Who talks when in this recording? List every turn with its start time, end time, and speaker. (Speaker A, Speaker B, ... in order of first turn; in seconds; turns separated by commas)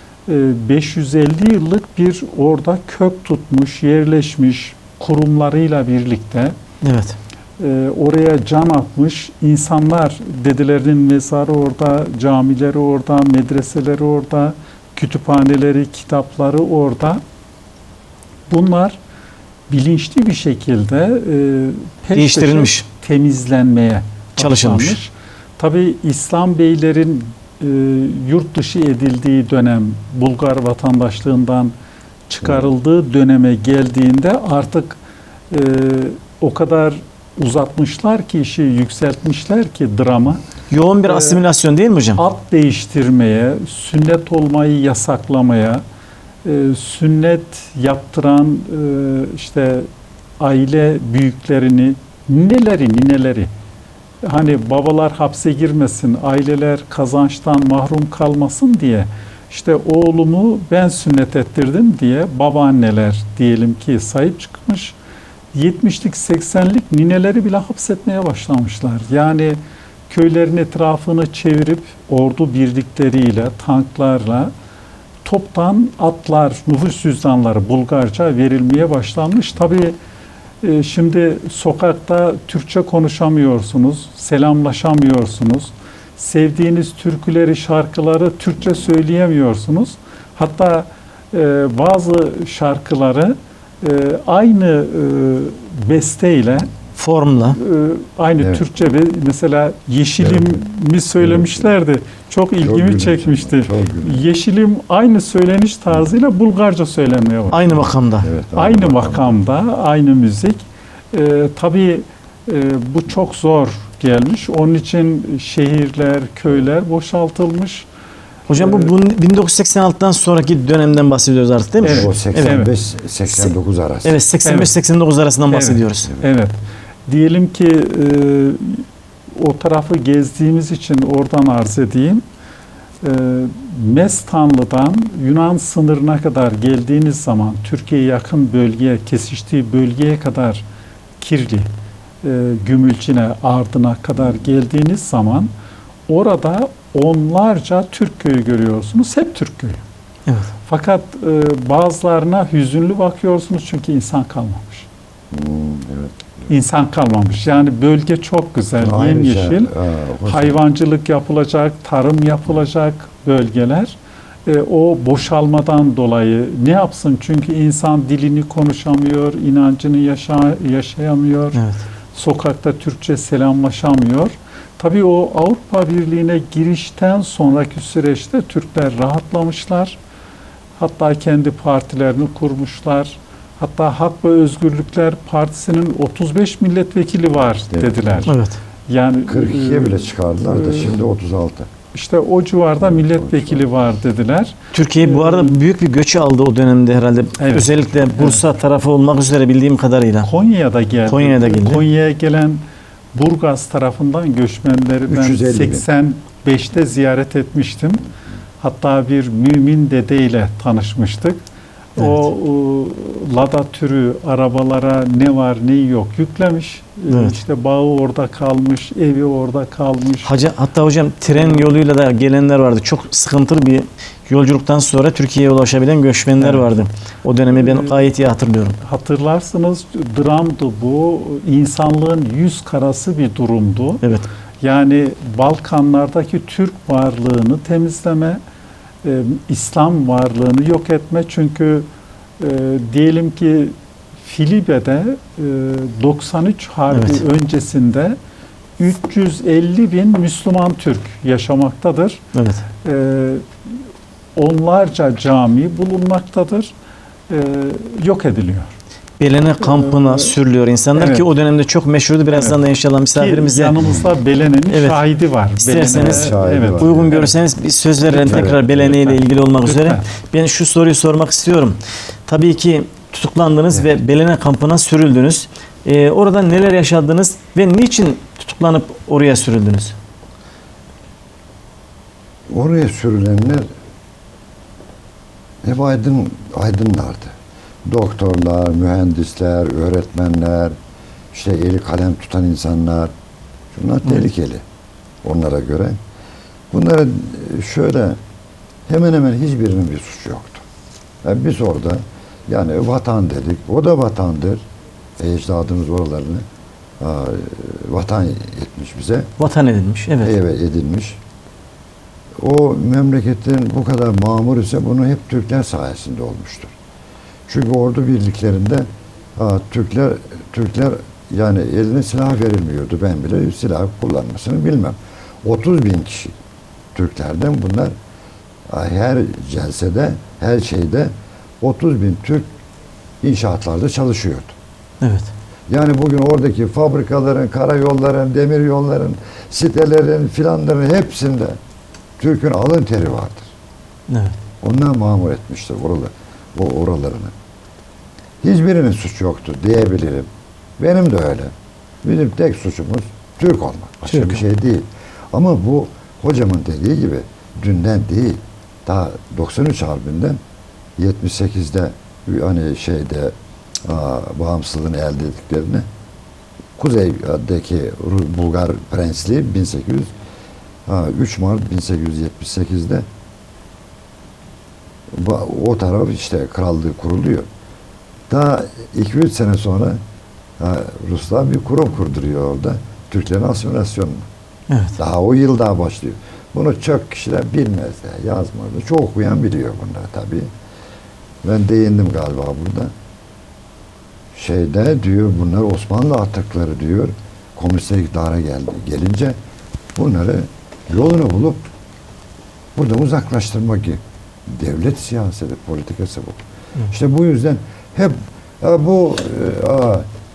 Speaker A: 0.3-6.5, Speaker B: 6.8-7.2, Speaker A: 7.6-17.2, Speaker A: 18.5-19.0, Speaker A: 19.7-31.7, Speaker B: 22.1-22.8, Speaker B: 24.4-24.9, Speaker A: 32.3-35.0, Speaker A: 35.5-40.4, Speaker B: 40.7-42.2, Speaker A: 41.0-41.4, Speaker A: 42.2-45.8, Speaker A: 46.4-49.9, Speaker A: 50.4-53.5, Speaker A: 54.2-64.9, Speaker A: 65.5-74.5, Speaker A: 75.2-80.0, Speaker A: 80.6-96.7, Speaker B: 97.0-97.6, Speaker A: 97.6-107.7, Speaker C: 98.4-98.6, Speaker C: 100.2-100.6, Speaker C: 101.2-101.7, Speaker C: 102.6-104.2, Speaker B: 107.5-108.3, Speaker C: 107.7-109.4, Speaker A: 108.5-110.6, Speaker A: 111.1-117.8, Speaker B: 118.5-122.6, Speaker A: 118.5-118.9, Speaker A: 121.8-122.7, Speaker C: 121.8-124.2, Speaker B: 124.0-126.1, Speaker A: 124.4-124.7, Speaker A: 125.5-132.2, Speaker A: 133.0-140.6, Speaker A: 141.2-141.7, Speaker A: 142.2-145.5, Speaker A: 146.1-149.8, Speaker A: 150.6-154.8, Speaker C: 155.3-156.5, Speaker A: 156.5-159.7, Speaker C: 158.8-160.6, Speaker A: 160.2-171.6, Speaker A: 172.1-180.0, Speaker A: 180.8-188.3, Speaker C: 187.7-188.0, Speaker B: 188.2-188.6, Speaker A: 188.9-190.9, Speaker C: 189.3-191.7, Speaker A: 191.9-195.6, Speaker C: 192.8-193.6, Speaker B: 194.7-200.3, Speaker A: 197.4-198.4, Speaker A: 200.3-202.6, Speaker B: 201.1-201.8, Speaker A: 203.1-208.0, Speaker C: 205.1-205.8, Speaker A: 208.6-211.4, Speaker A: 211.9-220.3, Speaker B: 212.0-212.2, Speaker B: 217.1-217.3, Speaker B: 220.2-228.8, Speaker A: 221.3-221.6, Speaker A: 226.4-226.7, Speaker A: 227.5-228.1, Speaker A: 228.8-234.0, Speaker A: 234.6-238.4, Speaker A: 239.0-241.9, Speaker A: 242.4-248.2, Speaker B: 246.9-247.2, Speaker A: 248.8-252.2, Speaker B: 252.3-252.6, Speaker A: 252.8-253.5, Speaker A: 254.3-256.7, Speaker A: 257.3-258.7, Speaker B: 259.2-263.8, Speaker A: 259.6-260.3, Speaker A: 260.9-261.2, Speaker A: 262.3-262.6, Speaker A: 263.1-267.3, Speaker B: 264.7-265.0, Speaker B: 265.6-279.9, Speaker C: 265.9-267.3, Speaker A: 268.1-270.0, Speaker C: 268.2-268.9, Speaker C: 282.5-283.6, Speaker C: 285.6-290.7, Speaker C: 291.3-293.1, Speaker C: 293.7-294.6, Speaker C: 295.2-296.0, Speaker C: 296.7-298.2, Speaker C: 298.9-300.6, Speaker C: 301.2-304.6, Speaker C: 305.2-306.4, Speaker C: 307.0-309.3, Speaker B: 309.4-310.4, Speaker C: 310.2-311.2, Speaker C: 312.4-316.7, Speaker C: 317.5-326.4, Speaker C: 326.9-327.9, Speaker C: 328.7-332.5, Speaker C: 333.2-334.5, Speaker B: 335.0-335.3, Speaker C: 335.7-341.6, Speaker C: 342.2-343.5, Speaker B: 344.1-344.3, Speaker C: 344.6-347.3, Speaker C: 348.4-350.3, Speaker C: 350.8-360.4, Speaker B: 354.1-354.4, Speaker C: 361.0-365.9, Speaker C: 366.8-370.1, Speaker C: 370.9-373.1, Speaker C: 375.1-377.5, Speaker C: 378.3-380.0, Speaker C: 380.6-384.2, Speaker B: 384.7-384.9, Speaker C: 385.0-390.5, Speaker C: 391.4-392.9, Speaker C: 394.3-399.4, Speaker C: 399.9-401.6, Speaker C: 402.7-410.1